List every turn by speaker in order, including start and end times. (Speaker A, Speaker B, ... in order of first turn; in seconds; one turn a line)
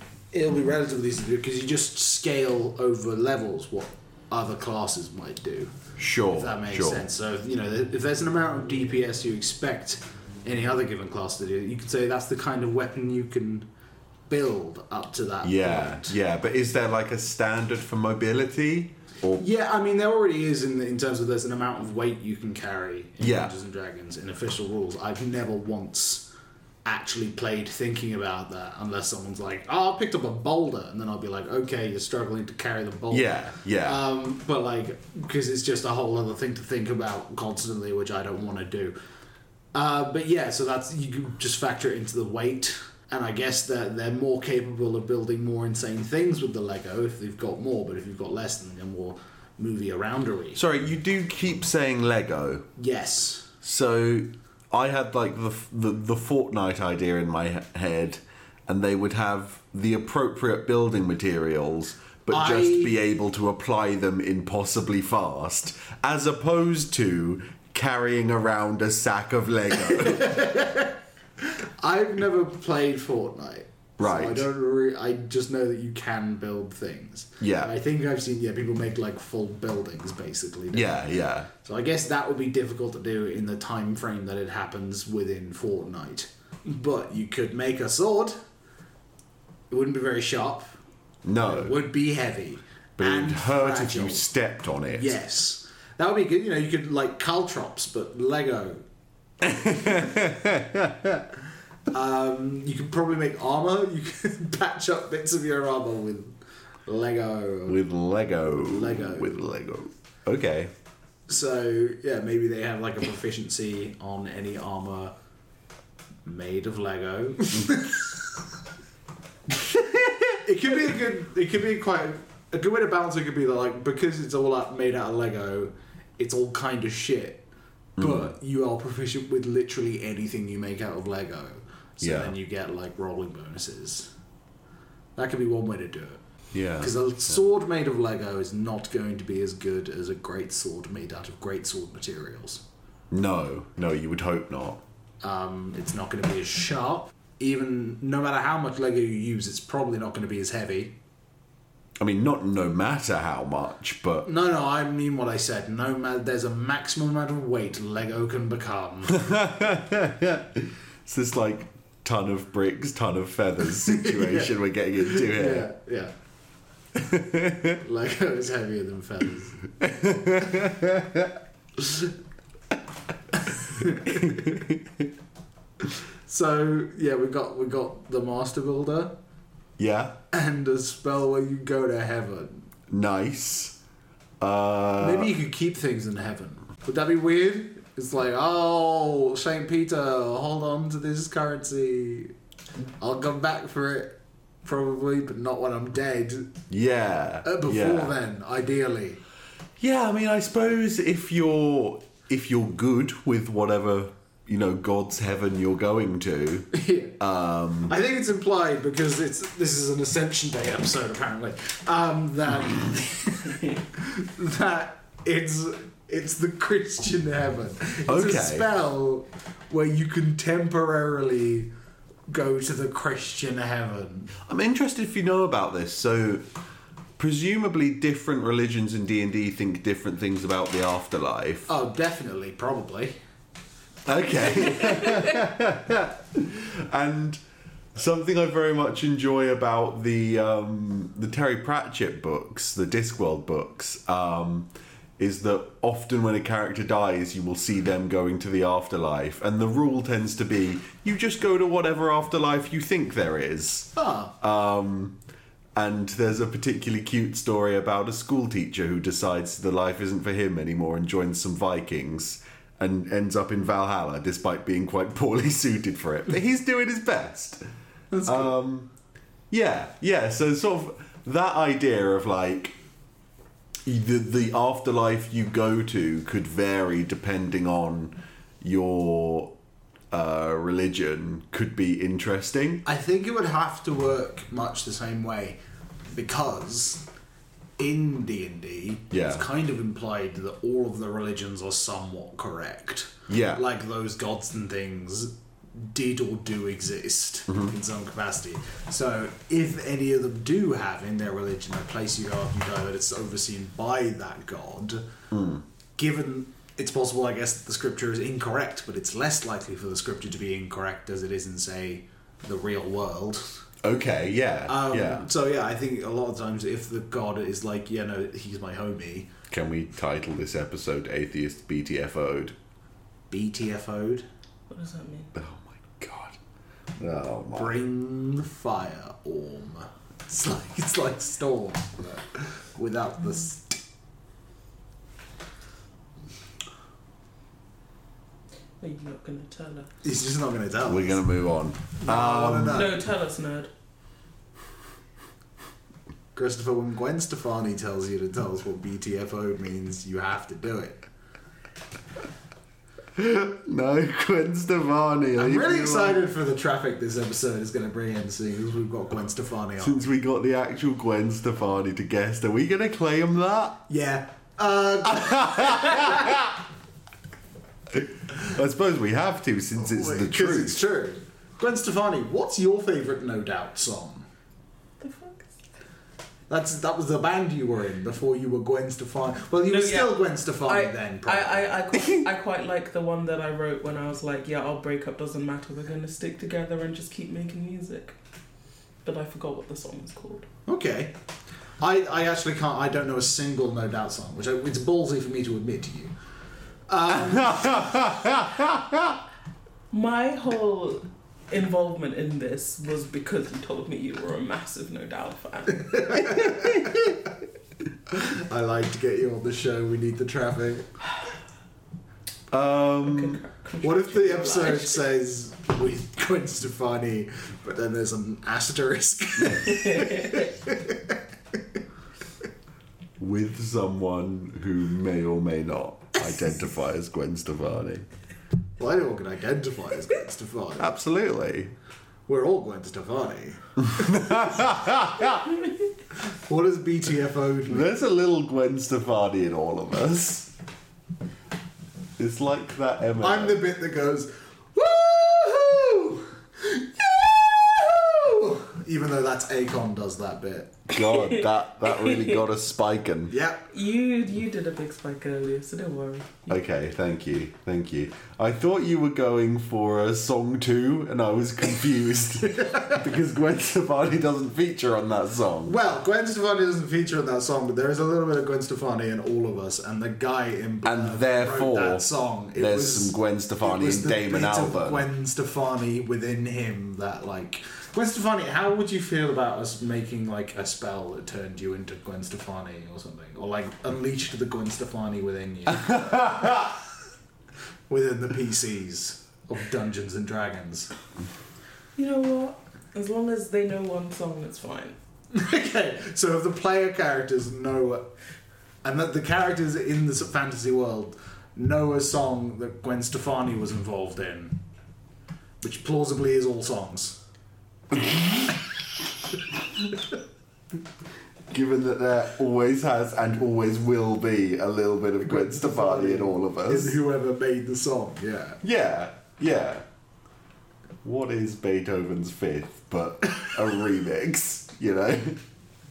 Speaker A: 0.3-5.7
Speaker B: 6.0-7.0
Speaker A: 6.3-13.7
Speaker A: 14.3-16.1
Speaker B: 15.4-19.4
Speaker A: 19.4-26.3
Speaker B: 23.2-23.5
Speaker A: 26.8-38.9
Speaker B: 33.1-34.0
Speaker A: 39.7-50.6
Speaker B: 50.5-52.7
Speaker A: 52.8-53.5
Speaker B: 53.6-70.4
Speaker A: 62.3-62.9
Speaker A: 69.9-88.4
Speaker B: 74.0-74.4
Speaker B: 77.4-77.7
Speaker B: 80.7-81.5
Speaker A: 89.7-90.8
Speaker B: 91.2-91.8
Speaker A: 91.4-94.3
Speaker B: 93.0-95.2
Speaker A: 94.9-98.8
Speaker B: 99.4-101.2
Speaker A: 101.9-106.3
Speaker A: 106.9-107.8
Speaker B: 107.7-110.7
Speaker A: 108.5-109.3
Speaker A: 111.3-115.1
Speaker A: 116.2-118.0
Speaker A: 120.4-127.5
Speaker B: 128.0-128.3
Speaker A: 128.0-134.1
Speaker B: 132.0-132.3
Speaker A: 135.2-136.2
Speaker B: 136.5-136.9
Speaker A: 136.8-142.6
Speaker B: 143.1-144.8
Speaker A: 145.2-150.9
Speaker B: 152.0-154.3
Speaker A: 154.2-159.2
Speaker B: 159.1-165.7
Speaker A: 163.8-166.1
Speaker B: 166.9-167.8
Speaker A: 167.7-169.6
Speaker B: 169.8-171.3
Speaker A: 173.3-174.6
Speaker B: 174.1-175.0
Speaker A: 176.2-179.1
Speaker B: 179.8-180.2
Speaker A: 180.3-182.6
Speaker B: 182.9-183.8
Speaker B: 184.4-185.3
Speaker A: 185.0-192.3
Speaker A: 193.0-196.5
Speaker B: 196.7-198.1
Speaker A: 197.4-199.2
Speaker B: 199.8-207.9
Speaker A: 206.7-207.2
Speaker A: 207.9-221.7
Speaker B: 218.1-218.7
Speaker A: 222.3-224.3
Speaker B: 224.4-226.4
Speaker B: 227.2-231.7
Speaker A: 231.7-233.2
Speaker B: 234.1-237.4
Speaker B: 237.9-255.2
Speaker A: 253.9-254.3
Speaker B: 255.8-267.6
Speaker A: 268.1-268.6
Speaker B: 268.2-268.9
Speaker B: 269.5-272.7
Speaker B: 273.9-279.5
Speaker B: 280.1-282.8
Speaker A: 282.8-287.0
Speaker A: 287.8-305.1
Speaker B: 289.1-289.4
Speaker B: 293.3-293.6
Speaker B: 305.3-305.6
Speaker A: 306.0-313.6
Speaker B: 313.8-315.2
Speaker A: 314.7-319.3
Speaker B: 319.5-322.5
Speaker A: 323.3-324.2
Speaker C: 324.7-325.3
Speaker B: 325.3-326.4
Speaker B: 327.0-327.7
Speaker A: 327.5-333.8
Speaker C: 338.8-339.9
Speaker A: 340.0-341.2
Speaker B: 340.9-342.9
Speaker A: 342.0-343.0
Speaker C: 342.7-343.7
Speaker A: 346.3-351.0
Speaker B: 353.1-356.2
Speaker A: 355.4-360.0
Speaker B: 359.8-363.8
Speaker A: 363.9-366.4
Speaker B: 365.1-366.5
Speaker B: 367.9-370.8
Speaker A: 369.8-374.3
Speaker C: 375.0-375.5
Speaker A: 376.5-381.8
Speaker C: 379.7-388.1
Speaker C: 389.0-390.5
Speaker A: 390.7-391.1
Speaker A: 391.8-396.1
Speaker A: 396.9-398.2
Speaker B: 397.1-399.2
Speaker C: 399.9-406.9
Speaker A: 406.0-407.0
Speaker A: 408.1-410.9
Speaker B: 412.5-413.4
Speaker C: 413.0-415.0
Speaker A: 413.8-421.2
Speaker C: 419.7-420.4
Speaker B: 423.2-428.1
Speaker A: 428.8-430.9
Speaker B: 430.8-431.7
Speaker A: 432.3-434.5
Speaker B: 433.8-435.5
Speaker A: 436.3-437.9
Speaker B: 437.7-440.5
Speaker B: 442.2-443.6
Speaker A: 443.2-450.8
Speaker B: 450.9-453.3
Speaker C: 451.1-452.4
Speaker A: 453.3-453.7
Speaker C: 453.7-456.6
Speaker B: 456.5-465.8
Speaker A: 462.7-462.9
Speaker A: 465.6-486.6
Speaker B: 470.8-475.0
Speaker B: 485.9-486.7
Speaker A: 487.9-490.9
Speaker C: 491.9-494.9
Speaker A: 495.3-498.1
Speaker A: 498.8-504.6
Speaker A: 505.6-507.2
Speaker B: 511.5-517.0
Speaker A: 515.2-518.6
Speaker B: 518.6-519.8
Speaker B: 521.0-525.4